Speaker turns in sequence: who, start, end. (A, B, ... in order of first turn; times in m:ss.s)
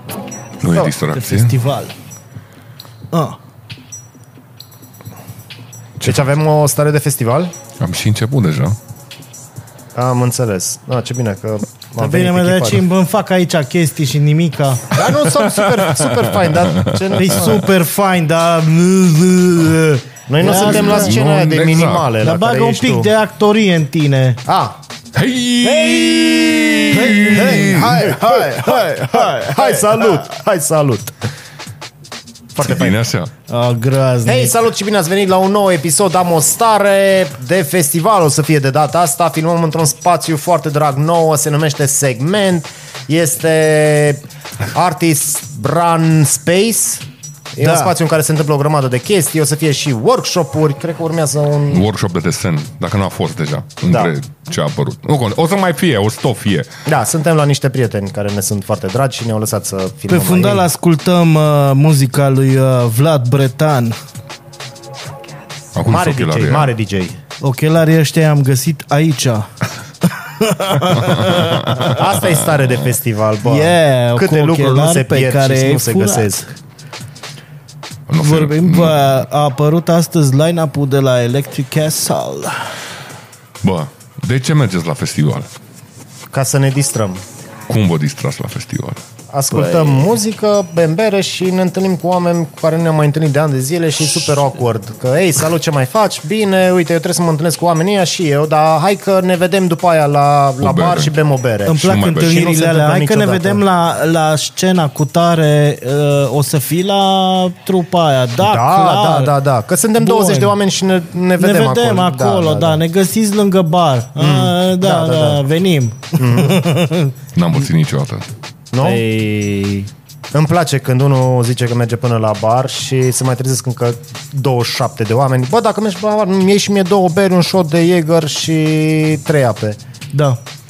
0:00.6-0:01.5 A
0:01.1-0:01.9 B
0:03.1-0:03.4 B
0:06.0-0:06.2 A
0:06.0-0:07.5 C
0:07.8-0:08.8 A
0:10.0-0:12.9 C
0:12.0-0:15.0 B
0:14.9-0:17.7 C
0:15.1-0:17.1 A
0:17.1-0:21.2 B
0:20.3-0:23.1 C
0:20.4-0:22.1 A
0:22.2-0:24.4 B
0:24.4-0:24.8 C
0:25.1-0:28.0 A
0:25.6-0:31.2 C
0:26.9-0:30.2 B
0:32.5-0:33.0 C
0:32.6-0:33.3 A
0:33.5-0:34.6 B
0:34.3-0:51.9 C
0:47.6-0:47.9 B
0:51.7-0:56.7 A
0:53.9-0:54.1 C
0:56.9-1:00.7 C
1:00.1-1:04.0 B
1:05.7-1:06.7 A
1:05.8-1:07.2 C
1:07.4-1:09.5 B
1:10.0-1:12.0 B
1:11.0-1:12.1 A
1:11.8-1:16.5 C
1:13.4-1:16.4 B
1:18.1-1:19.2 A
1:18.2-1:22.7 B
1:23.6-1:25.5 A
1:26.3-1:27.2 C
1:27.7-1:29.0 A
1:29.3-1:43.6 C
1:29.6-1:29.9 B
1:40.6-1:41.1 A
1:41.7-1:49.4 B
1:41.7-1:42.4 A
1:48.4-1:52.8 C
1:50.0-1:50.6 B
1:51.4-1:57.2 B
1:54.2-1:55.4 C
1:56.2-1:56.6 C
1:57.4-1:58.3 A
1:58.7-1:59.0 C
1:58.8-1:59.9 B
2:00.3-2:09.8 C
2:10.1-2:10.4 B